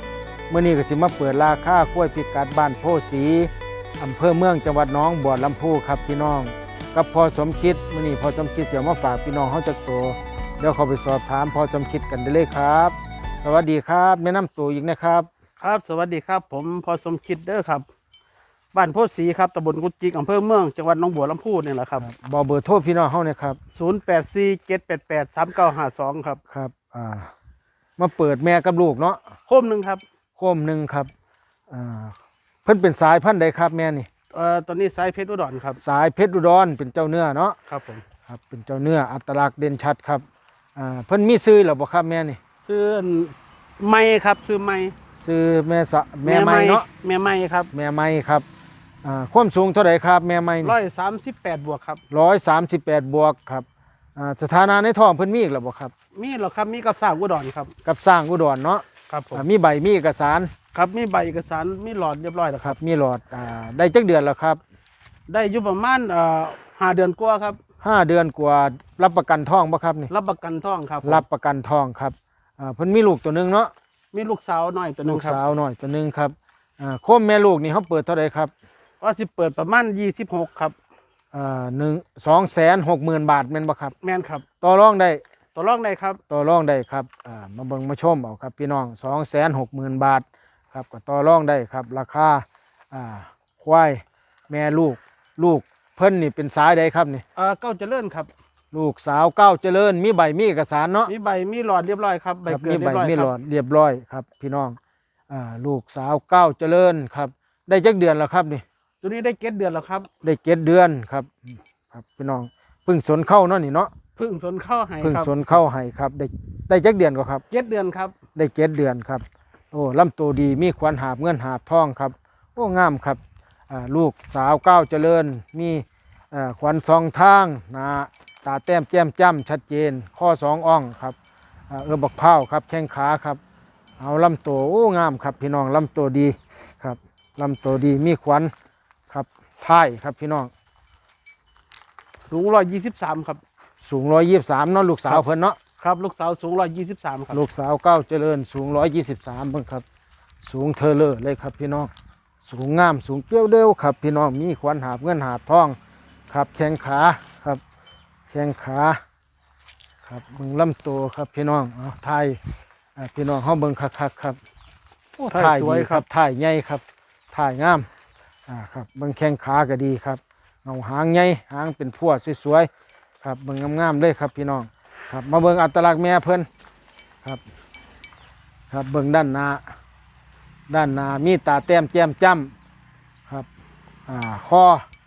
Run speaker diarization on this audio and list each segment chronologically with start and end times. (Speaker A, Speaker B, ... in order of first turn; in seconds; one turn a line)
Speaker A: 0.5-15.3
Speaker B: 15.6-17.9
Speaker B: 18.7-22.1
Speaker A: 22.0-23.6
Speaker B: 23.8-26.4
Speaker A: 26.5-27.3
Speaker A: 28.0-29.2
Speaker B: 29.5-30.0
Speaker A: 30.4-31.1
Speaker A: 31.7-34.1
Speaker B: 34.3-35.8
Speaker A: 35.8-37.6
Speaker B: 37.7-38.0
Speaker A: 38.3-40.2
Speaker A: 40.8-42.4
Speaker B: 42.7-44.9
Speaker A: 45.2-46.9
Speaker B: 46.2-47.7
Speaker A: 47.7-48.5
Speaker A: 49.0-50.8
Speaker B: 50.6-52.0
Speaker A: 52.1-55.9
Speaker B: 56.1-57.7
Speaker A: 57.9-60.5
Speaker B: 59.1-59.4
Speaker B: 60.7-62.8
Speaker A: 62.6-64.6
Speaker B: 65.3-67.6
Speaker A: 67.8-70.1
Speaker B: 70.1-71.2
Speaker A: 71.0-73.7
Speaker B: 74.1-75.4
Speaker A: 75.1-78.5
Speaker B: 79.0-80.8
Speaker A: 81.3-84.0
Speaker B: 84.0-84.4
Speaker A: 84.6-85.2
Speaker B: 85.5-86.2
Speaker A: 86.3-97.2
Speaker B: 97.4-98.3
Speaker A: 98.7-101.1
Speaker B: 101.1-103.3
Speaker A: 102.5-104.8
Speaker A: 105.3-108.6
Speaker B: 109.0-110.1
Speaker A: 110.2-113.9
Speaker B: 114.2-115.5
Speaker A: 115.0-117.4
Speaker B: 117.5-118.2
Speaker A: 118.3-131.2
Speaker A: 131.7-133.4
Speaker A: 134.0-138.5
Speaker A: 139.1-140.5
Speaker B: 142.2-143.4
Speaker A: 143.8-145.6
Speaker B: 145.8-147.4
Speaker A: 147.3-149.8
Speaker A: 150.4-151.9
Speaker A: 152.4-155.8
Speaker A: 156.3-157.6
Speaker A: 158.3-159.0
Speaker A: 160.1-162.4
Speaker A: 163.0-164.4
Speaker B: 165.2-166.0
Speaker A: 165.3-167.9
Speaker A: 168.5-172.7
Speaker A: 173.2-176.5
Speaker A: 178.7-179.7
Speaker A: 180.7-182.5
Speaker A: 184.1-184.9